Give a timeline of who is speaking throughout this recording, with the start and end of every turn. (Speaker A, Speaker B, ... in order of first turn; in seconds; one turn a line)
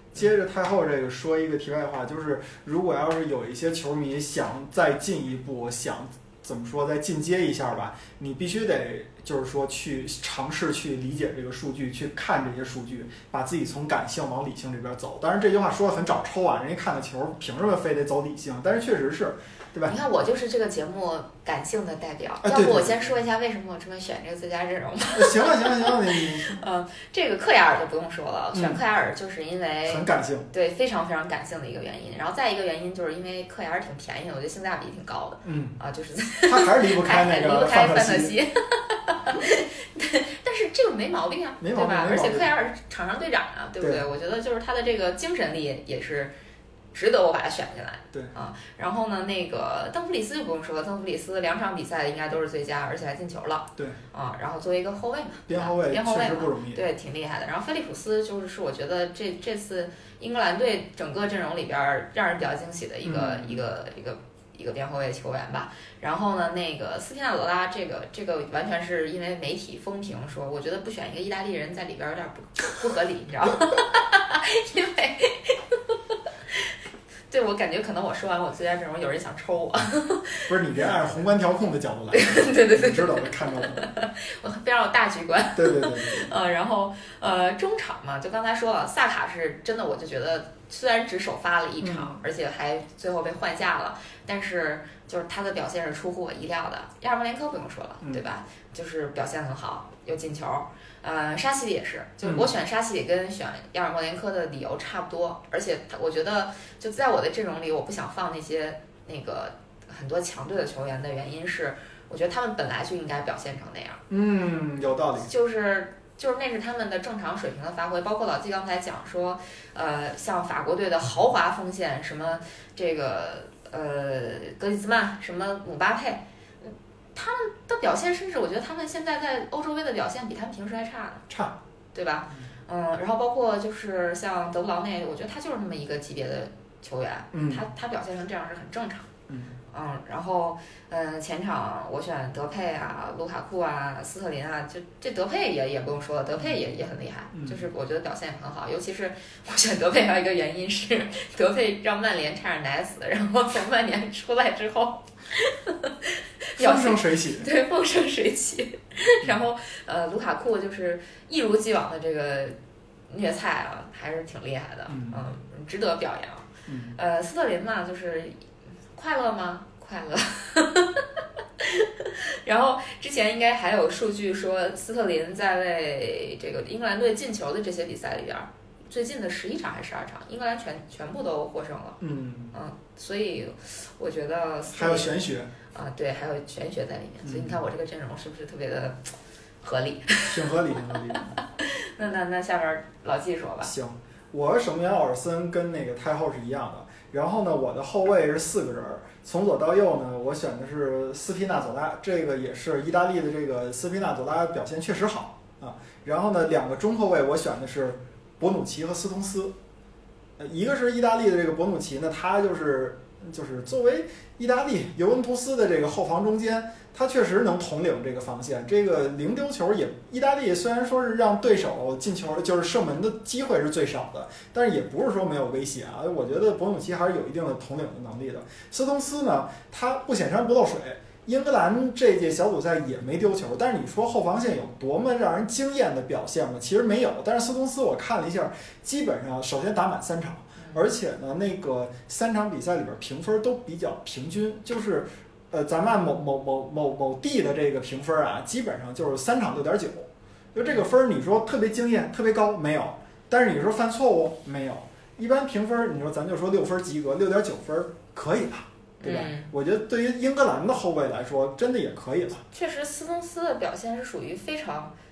Speaker A: 0.1-20.0
Speaker B: 19.9-46.3
Speaker A: 22.4-23.1
Speaker A: 25.1-26.6
Speaker A: 28.5-28.8
Speaker A: 29.9-30.5
Speaker A: 35.4-35.8
Speaker A: 36.4-38.3
Speaker A: 41.6-42.5
Speaker B: 46.9-76.0
Speaker A: 55.5-56.8
Speaker A: 63.0-63.6
Speaker B: 77.3-80.5
Speaker A: 80.5-83.9
Speaker B: 82.1-114.0
Speaker A: 85.6-86.3
Speaker A: 91.8-92.2
Speaker A: 102.2-102.5
Speaker A: 114.1-115.3
Speaker B: 115.2-131.3
Speaker A: 131.3-131.6
Speaker B: 131.9-139.1
Speaker A: 137.3-137.7
Speaker A: 139.3-139.5
Speaker B: 139.7-162.6
Speaker A: 147.3-147.6
Speaker A: 156.6-157.5
Speaker B: 163.1-171.1
Speaker A: 164.9-165.3
Speaker A: 166.7-166.9
Speaker B: 171.6-182.0
Speaker A: 182.0-182.5
Speaker B: 182.5-185.2
Speaker A: 184.7-185.5
Speaker B: 185.7-189.1
Speaker A: 187.2-187.6
Speaker B: 189.6-190.5
Speaker A: 190.3-191.4
Speaker B: 191.6-193.7
Speaker A: 193.6-209.6
Speaker A: 210.4-262.4
Speaker B: 240.6-240.9
Speaker B: 259.0-259.5
Speaker B: 262.5-264.9